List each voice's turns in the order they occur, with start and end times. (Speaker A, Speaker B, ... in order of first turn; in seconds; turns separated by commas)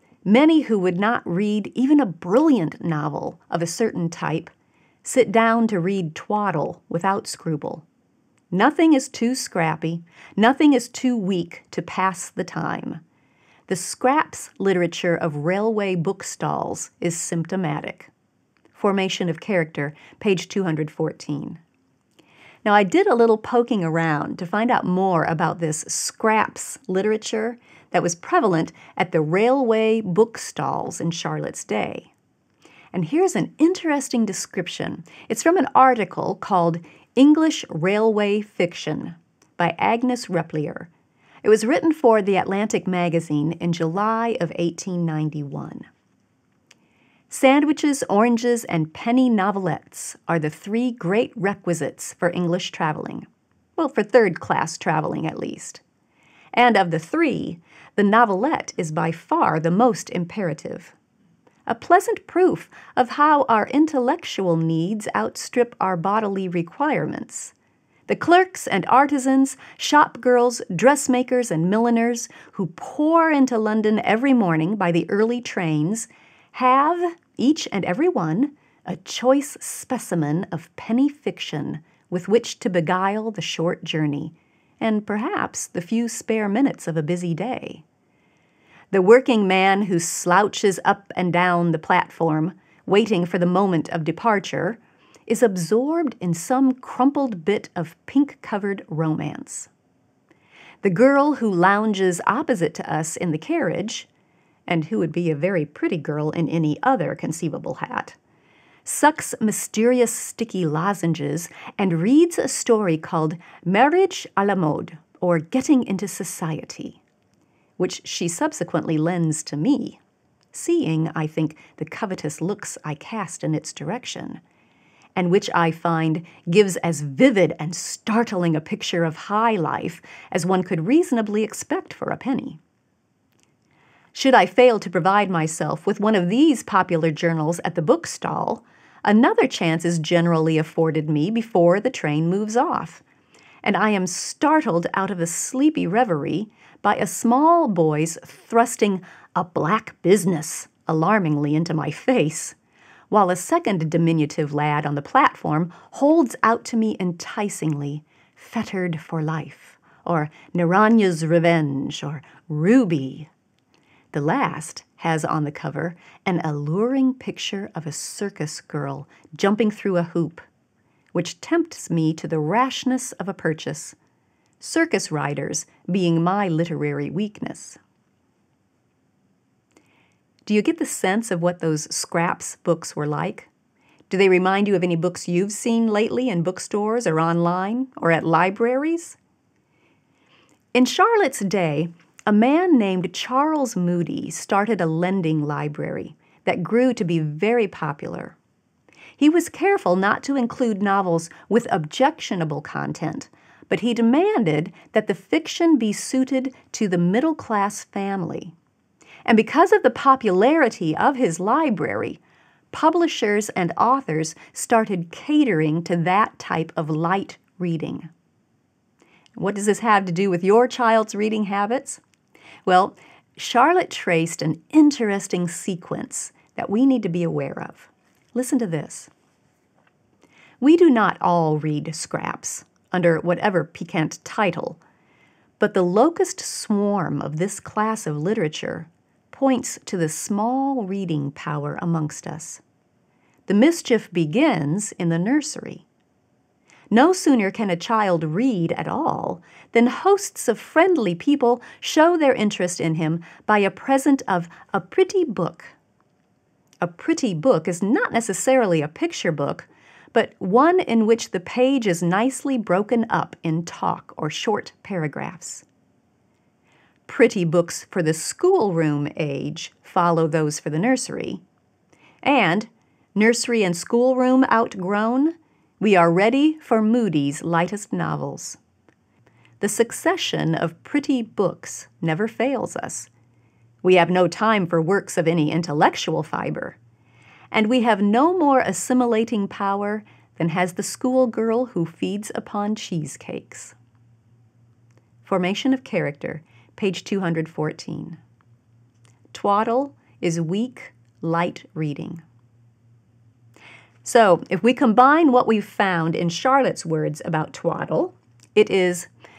Speaker A: 0.2-4.5, Speaker A: 5.0-7.8, Speaker A: 8.5-13.0, Speaker A: 13.7-18.1, Speaker A: 18.7-21.6, Speaker A: 22.6-32.1, Speaker A: 32.9-40.9, Speaker A: 41.4-45.9, Speaker A: 47.3-55.8, Speaker A: 56.5-60.9, Speaker A: 61.7-67.5, Speaker A: 68.1-87.8, Speaker A: 88.9-99.7, Speaker A: 100.8-104.1, Speaker A: 104.7-108.2, Speaker A: 108.8-117.0, Speaker A: 117.8-120.0, Speaker A: 120.5-124.4, Speaker A: 125.2-132.6, Speaker A: 134.1-143.0, Speaker A: 143.6-152.6, Speaker A: 153.1-163.3, Speaker A: 164.1-170.4, Speaker A: 171.1-174.0, Speaker A: 174.6-177.8, Speaker A: 180.4-183.5, Speaker A: 184.1-189.2, Speaker A: 190.7-198.4, Speaker A: 199.2-208.5, Speaker A: 209.2-212.2, Speaker A: 212.7-218.1, Speaker A: 219.4-222.0, Speaker A: 222.7-229.1, Speaker A: 230.6-234.8, Speaker A: 235.6-242.6, Speaker A: 243.5-245.9, Speaker A: 246.9-255.7, Speaker A: 256.8-265.6, Speaker A: 267.1-271.4, Speaker A: 272.2-278.6, Speaker A: 279.6-283.1, Speaker A: 283.8-286.8, Speaker A: 287.5-293.8, Speaker A: 295.2-298.2, Speaker A: 299.3-302.2, Speaker A: 304.0-309.1